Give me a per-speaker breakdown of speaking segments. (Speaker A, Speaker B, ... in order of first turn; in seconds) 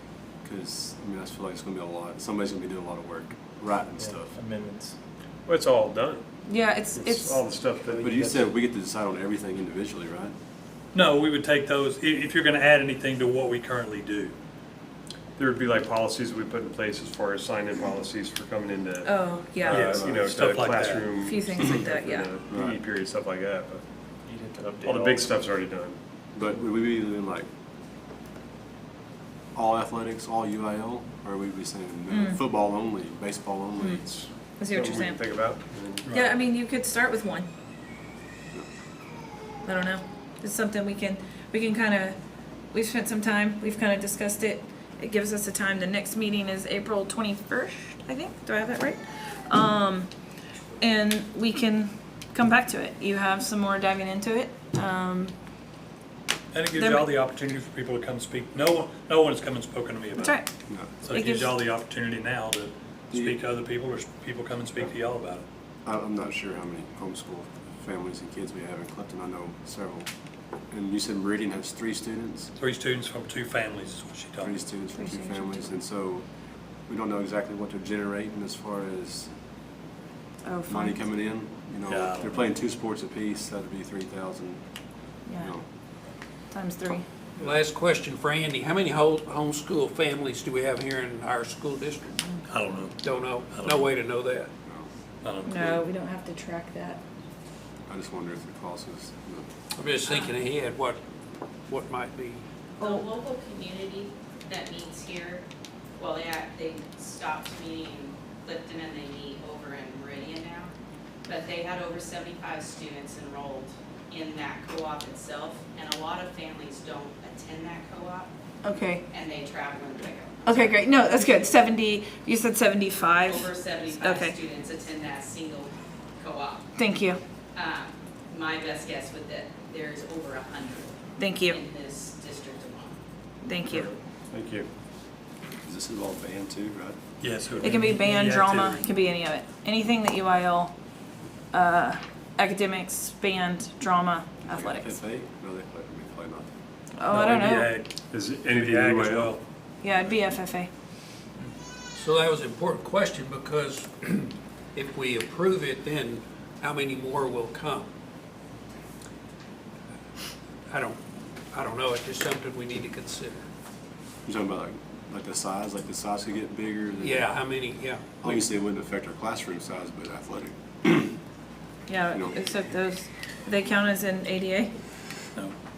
Speaker A: 0.4-4.4, 8.0-10.3, 19.8-20.3, 22.5-22.8, 26.3-27.5, 29.6-34.1, 60.7-60.9, 63.1-63.4, 65.9-70.1, 70.7-72.5, 74.4-76.3, 76.9-79.3, 80.7-84.6, 85.4-85.6, 94.6-94.9, 97.9-99.5, 135.6-137.0, 144.4-146.5, 164.3-167.3, 168.2-171.2, 172.1-172.4
Speaker B: 4.0-5.0, 7.8-8.5, 24.3-25.3
Speaker C: 5.5-6.2, 6.9-8.3, 15.4-23.8, 24.6-26.0, 34.0-36.1, 133.7-134.7, 147.1-149.4
Speaker D: 6.5-7.4, 19.0-19.9, 21.1-22.3, 32.1-32.4, 34.6-35.2, 36.1-37.5, 39.6-42.2, 42.7-50.1, 50.8-55.3, 56.7-57.1, 60.2-60.5, 61.1-61.7, 75.0-75.6, 80.4-81.0, 85.3-85.5, 86.5-87.1, 95.5-97.0, 118.6-119.0, 120.5-124.4, 126.8-127.2, 131.2-131.6, 133.4-133.9, 137.6-140.7, 141.5-145.0, 147.0-147.7, 149.8-150.7, 171.9-174.7
Speaker E: 10.9-14.3, 19.7-21.1, 56.5-60.4, 60.9-65.4, 72.6-74.6, 81.9-82.4, 92.5-93.9, 95.2-95.8, 137.2-138.8, 147.4-147.9, 148.5-149.4
Speaker F: 87.4-92.2, 93.0-94.5, 99.8-101.0, 101.7-102.5, 151.9-157.9, 160.7-161.0, 161.5-163.4, 167.0-168.5
Speaker G: 100.0-100.3, 102.8-105.4, 106.0-110.7, 111.3-118.3, 119.1-121.4, 123.2-126.7, 127.5-133.0